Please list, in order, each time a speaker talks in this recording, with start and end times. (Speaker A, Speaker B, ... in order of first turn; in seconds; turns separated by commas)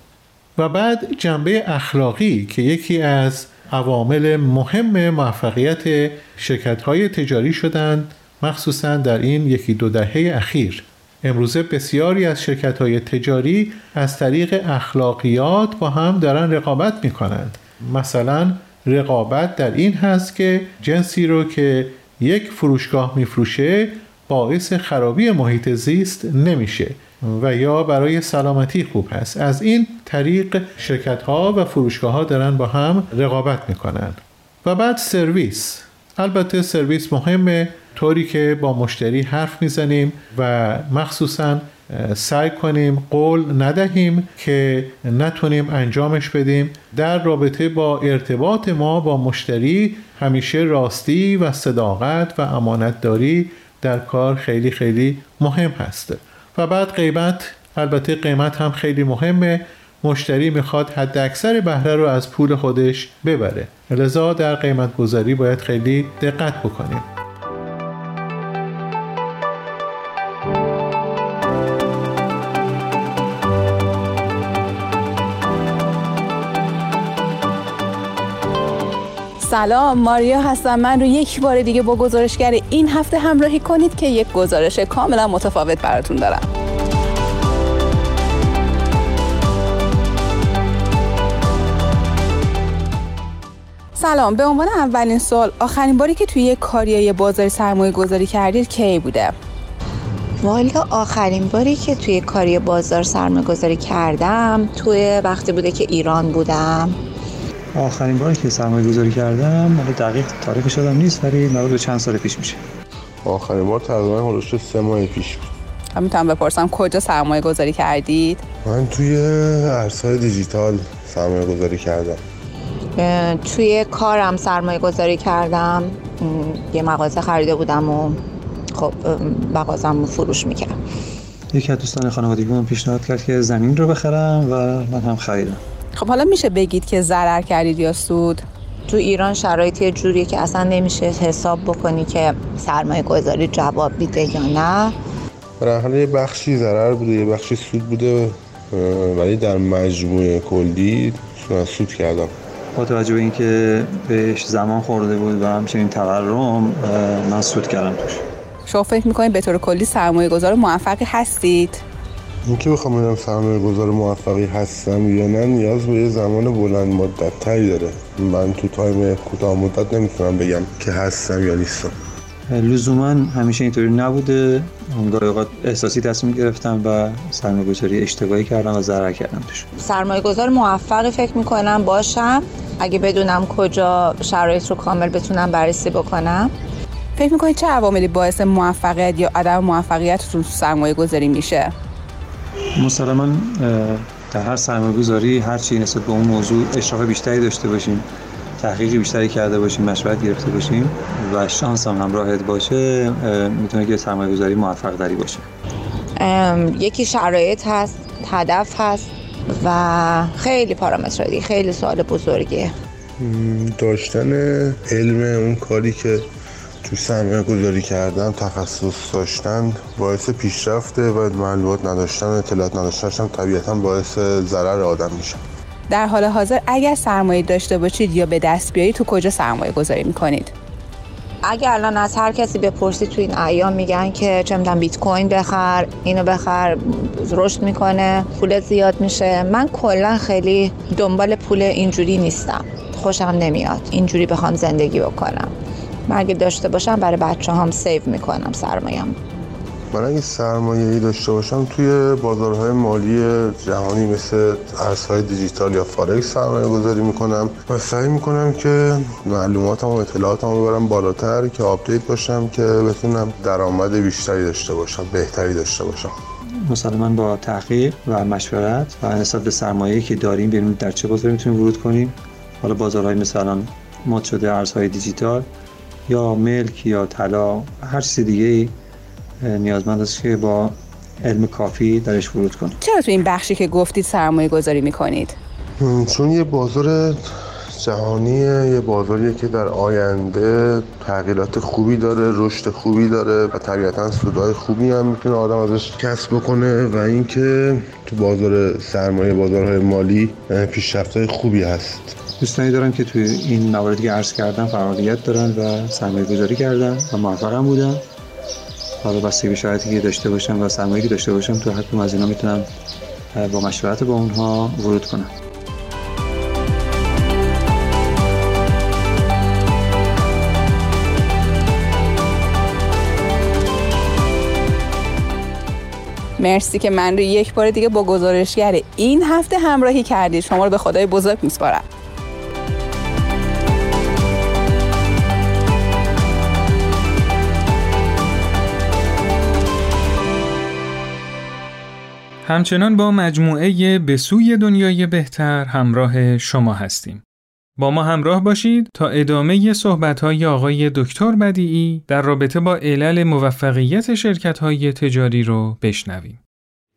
Speaker A: 0.6-67.0, Speaker B: 79.4-86.5, Speaker B: 94.0-99.3, Speaker C: 100.4-107.0, Speaker D: 107.8-112.6, Speaker E: 113.2-115.5, Speaker B: 115.9-118.4, Speaker E: 118.6-122.2, Speaker C: 123.0-128.2, Speaker C: 128.7-130.8, Speaker D: 131.5-135.6, Speaker B: 135.9-138.4, Speaker C: 138.9-144.9, Speaker E: 145.6-152.3, Speaker D: 152.8-158.2, Speaker B: 158.7-161.8, Speaker E: 162.5-171.9, Speaker D: 172.5-179.7, Speaker C: 179.8-186.5, Speaker B: 187.2-191.7, Speaker D: 192.8-198.1, Speaker D: 198.6-205.4, Speaker C: 206.2-212.7, Speaker E: 213.2-216.3, Speaker E: 216.8-225.4, Speaker B: 225.9-230.5, Speaker C: 231.4-245.5, Speaker C: 246.1-249.2, Speaker E: 249.9-266.1, Speaker D: 266.6-275.5, Speaker D: 276.1-278.7, Speaker D: 279.4-282.7, Speaker B: 282.8-285.4, Speaker E: 285.8-302.2, Speaker D: 302.4-308.0, Speaker D: 309.0-312.7, Speaker D: 313.3-315.3, Speaker B: 326.4-331.9, Speaker F: 342.4-347.2, Speaker F: 347.8-356.4